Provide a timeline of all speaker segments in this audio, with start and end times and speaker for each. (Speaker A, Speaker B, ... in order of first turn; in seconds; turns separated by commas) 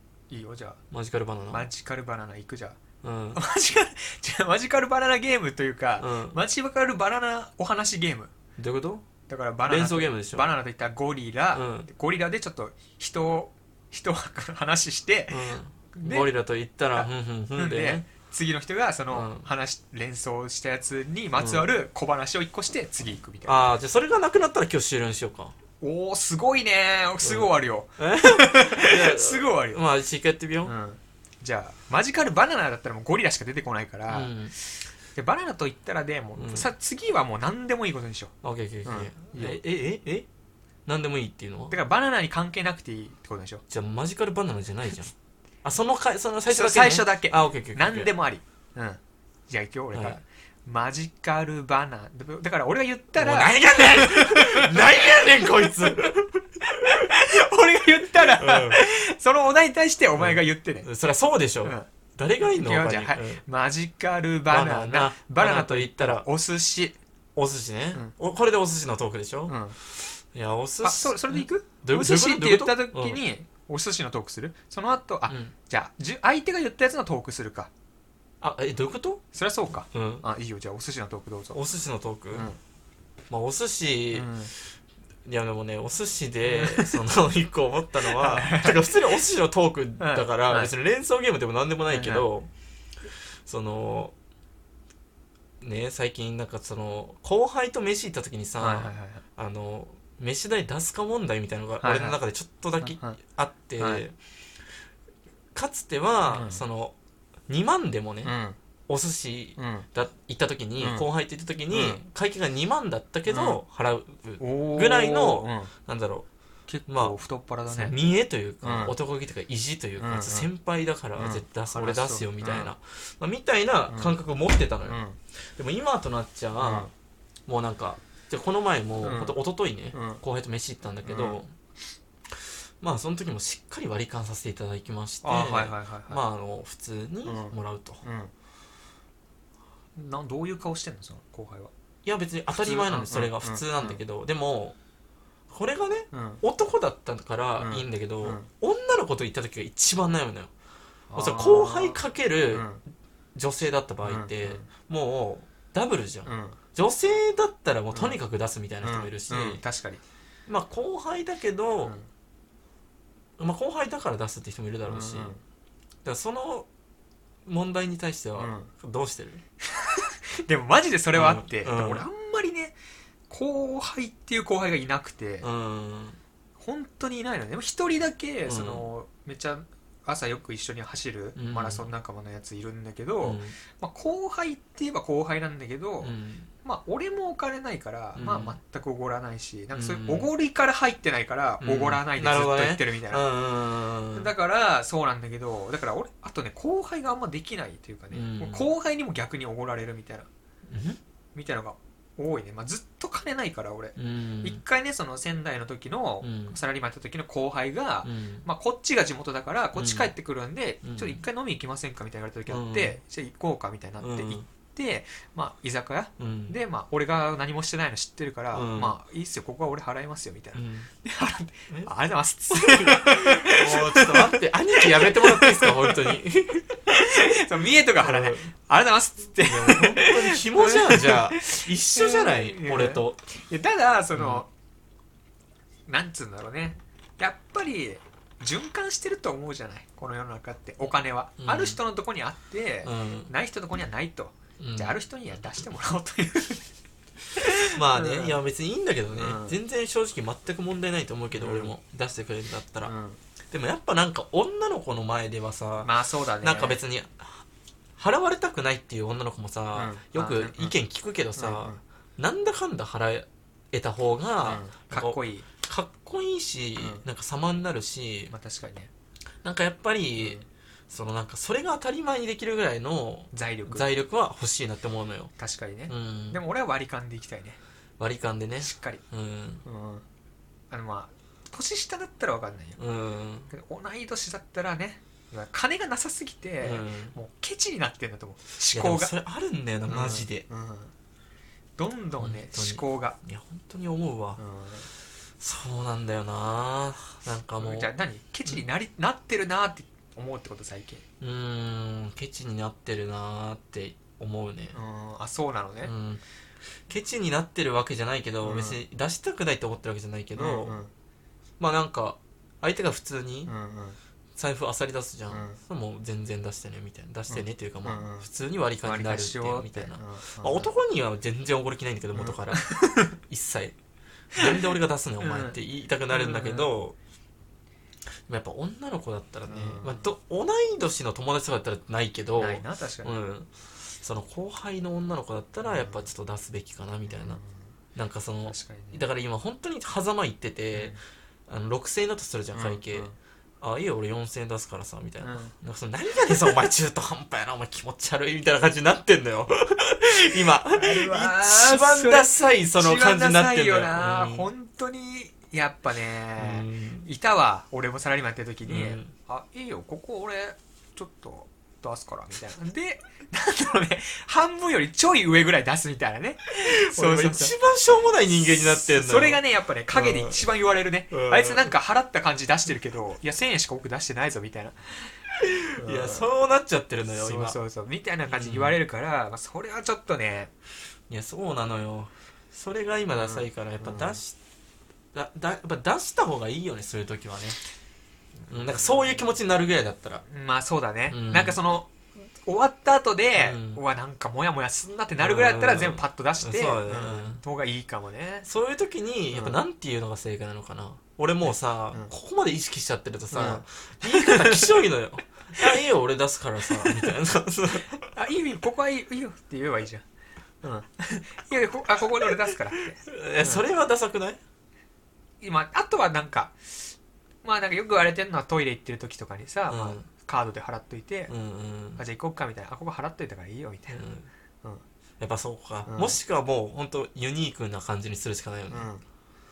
Speaker A: 0.3-0.8, Speaker B: 0.9-1.7, Speaker A: 1.5-2.8, Speaker B: 3.0-3.4, Speaker A: 3.3-8.3, Speaker B: 6.0-6.4, Speaker B: 8.6-9.1, Speaker A: 9.3-16.3, Speaker B: 9.7-10.5, Speaker B: 11.5-11.9, Speaker B: 15.3-18.1, Speaker A: 16.9-23.7, Speaker B: 19.1-19.5, Speaker B: 21.4-21.7, Speaker B: 23.4-25.6, Speaker A: 25.8-29.8, Speaker B: 27.2-30.7, Speaker A: 30.6-34.3, Speaker B: 34.1-34.5, Speaker A: 35.1-39.6, Speaker B: 36.4-36.7, Speaker B: 38.4-40.3, Speaker B: 40.9-41.8, Speaker A: 41.7-43.6, Speaker B: 43.7-48.1, Speaker A: 46.5-60.9, Speaker B: 49.9-50.2, Speaker B: 53.2-56.5, Speaker B: 58.2-58.8, Speaker B: 60.2-63.4, Speaker A: 62.4-67.0, Speaker B: 64.5-66.3, Speaker B: 67.4-73.2, Speaker A: 69.5-69.8, Speaker A: 70.8-77.7, Speaker B: 75.3-75.5, Speaker B: 78.4-79.2, Speaker A: 79.3-81.6, Speaker B: 79.9-80.3, Speaker B: 81.5-82.5, Speaker A: 82.3-82.6, Speaker B: 83.3-84.5, Speaker A: 84.1-84.5, Speaker B: 85.2-92.5, Speaker A: 86.4-87.0, Speaker A: 88.1-89.2, Speaker A: 90.0-90.7, Speaker A: 91.9-92.3, Speaker B: 93.5-94.1, Speaker B: 95.6-104.2, Speaker A: 98.6-99.2, Speaker A: 101.8-102.2, Speaker A: 102.8-103.2, Speaker B: 105.5-107.0, Speaker A: 106.3-106.6, Speaker B: 107.5-108.4, Speaker A: 108.2-108.6, Speaker B: 108.9-116.3, Speaker A: 109.6-109.9, Speaker A: 110.8-111.1, Speaker A: 111.7-112.0, Speaker A: 113.3-113.6, Speaker A: 114.4-115.7, Speaker A: 116.7-118.0, Speaker B: 116.9-117.2, Speaker B: 117.7-126.9, Speaker A: 118.6-119.0, Speaker A: 120.0-120.5, Speaker A: 121.2-122.7, Speaker A: 123.9-124.2, Speaker A: 124.9-125.2, Speaker A: 126.6-126.9, Speaker B: 127.5-131.5, Speaker A: 129.0-129.4, Speaker A: 129.9-130.2, Speaker A: 131.1-131.4, Speaker B: 132.8-138.0, Speaker A: 135.2-136.2, Speaker A: 137.2-138.3, Speaker A: 139.9-141.7, Speaker B: 142.1-144.8, Speaker A: 142.6-144.0, Speaker B: 145.5-150.5, Speaker A: 146.1-146.4, Speaker A: 147.6-148.5, Speaker A: 151.1-152.0, Speaker B: 151.1-152.8, Speaker A: 152.5-152.8, Speaker B: 153.3-159.6, Speaker A: 154.0-154.7, Speaker A: 156.3-156.6, Speaker A: 157.9-158.2, Speaker A: 158.8-160.0, Speaker B: 160.5-162.0, Speaker B: 163.4-165.4, Speaker A: 164.9-165.4, Speaker B: 166.0-166.7, Speaker B: 167.5-169.4, Speaker A: 168.4-168.7, Speaker A: 169.7-172.8, Speaker B: 171.1-172.1, Speaker A: 173.3-175.5, Speaker B: 175.4-176.2, Speaker A: 176.6-193.3, Speaker B: 178.5-178.9, Speaker B: 181.4-181.9, Speaker B: 183.2-183.6, Speaker B: 186.0-186.5, Speaker B: 188.2-188.6, Speaker B: 189.7-190.3, Speaker B: 191.6-194.3, Speaker A: 194.1-200.3, Speaker B: 198.1-198.7, Speaker B: 200.7-201.0, Speaker A: 201.3-226.2, Speaker B: 204.0-204.6, Speaker B: 206.2-206.6, Speaker B: 208.0-208.4, Speaker B: 209.8-210.1, Speaker B: 210.8-211.2, Speaker B: 212.5-213.0, Speaker B: 214.0-214.5, Speaker B: 216.2-216.6, Speaker B: 218.5-219.0, Speaker B: 220.5-220.9, Speaker B: 222.5-227.2, Speaker A: 226.9-234.5, Speaker B: 227.9-228.5, Speaker B: 229.4-233.2, Speaker B: 234.2-234.4, Speaker A: 235.9-246.7, Speaker B: 241.4-241.8, Speaker B: 242.8-243.3, Speaker B: 244.6-245.0, Speaker A: 247.4-248.4, Speaker B: 247.6-252.9, Speaker A: 249.1-249.6, Speaker A: 251.4-251.7, Speaker A: 252.8-253.2, Speaker B: 253.5-257.4, Speaker A: 255.8-256.8, Speaker B: 258.0-268.3, Speaker A: 259.8-260.7, Speaker A: 261.4-261.8, Speaker A: 264.4-265.5, Speaker A: 266.8-267.0, Speaker A: 268.3-268.9, Speaker B: 269.4-275.3, Speaker A: 270.2-270.4, Speaker A: 273.3-273.9, Speaker A: 275.4-277.6, Speaker B: 275.9-276.4, Speaker B: 278.0-279.6, Speaker A: 278.6-279.0, Speaker A: 279.6-280.1, Speaker A: 280.7-282.8, Speaker B: 282.8-283.5, Speaker A: 283.5-289.1, Speaker B: 286.6-287.1, Speaker B: 288.7-290.4, Speaker A: 289.9-290.9, Speaker A: 291.8-293.2, Speaker B: 292.2-294.4, Speaker A: 294.4-294.9, Speaker B: 295.4-297.9, Speaker A: 297.6-301.0, Speaker B: 301.2-304.8, Speaker A: 304.7-305.9, Speaker B: 305.8-306.2, Speaker B: 306.9-310.8, Speaker A: 308.4-308.8, Speaker A: 310.4-310.9, Speaker B: 311.6-313.5, Speaker A: 313.5-314.0, Speaker B: 314.4-323.8, Speaker A: 315.3-315.6, Speaker A: 317.3-318.3, Speaker A: 318.8-320.7, Speaker A: 322.1-323.1, Speaker B: 324.3-326.9, Speaker A: 325.2-325.6, Speaker A: 326.1-326.7, Speaker B: 328.3-337.4, Speaker A: 329.5-330.1, Speaker A: 332.4-333.1, Speaker A: 335.6-336.1, Speaker A: 337.1-337.6, Speaker B: 337.9-354.5, Speaker A: 338.5-339.0, Speaker A: 340.7-341.0, Speaker A: 342.5-343.1, Speaker A: 345.2-345.6, Speaker A: 350.7-367.6, Speaker B: 356.4-357.1, Speaker B: 358.7-359.1, Speaker B: 366.5-370.5, Speaker A: 368.7-375.2, Speaker B: 371.1-371.7, Speaker B: 375.4-377.6, Speaker A: 375.8-376.3, Speaker A: 377.1-380.5, Speaker B: 378.3-378.8, Speaker B: 381.1-384.4, Speaker A: 383.2-384.2, Speaker B: 385.1-387.6, Speaker A: 388.4-389.2, Speaker B: 388.5-390.2, Speaker A: 390.3-398.5, Speaker B: 391.1-391.6, Speaker B: 393.4-393.8, Speaker B: 395.2-397.4, Speaker B: 398.5-408.1, Speaker A: 399.3-399.6, Speaker A: 403.3-404.8, Speaker A: 406.7-407.1, Speaker A: 408.0-410.1, Speaker A: 410.6-413.6, Speaker B: 413.0-414.4, Speaker A: 415.4-421.3, Speaker B: 419.7-420.1, Speaker B: 421.3-422.0, Speaker A: 422.0-424.1, Speaker B: 423.9-424.3, Speaker B: 425.2-428.9, Speaker A: 425.9-426.2, Speaker A: 428.7-429.0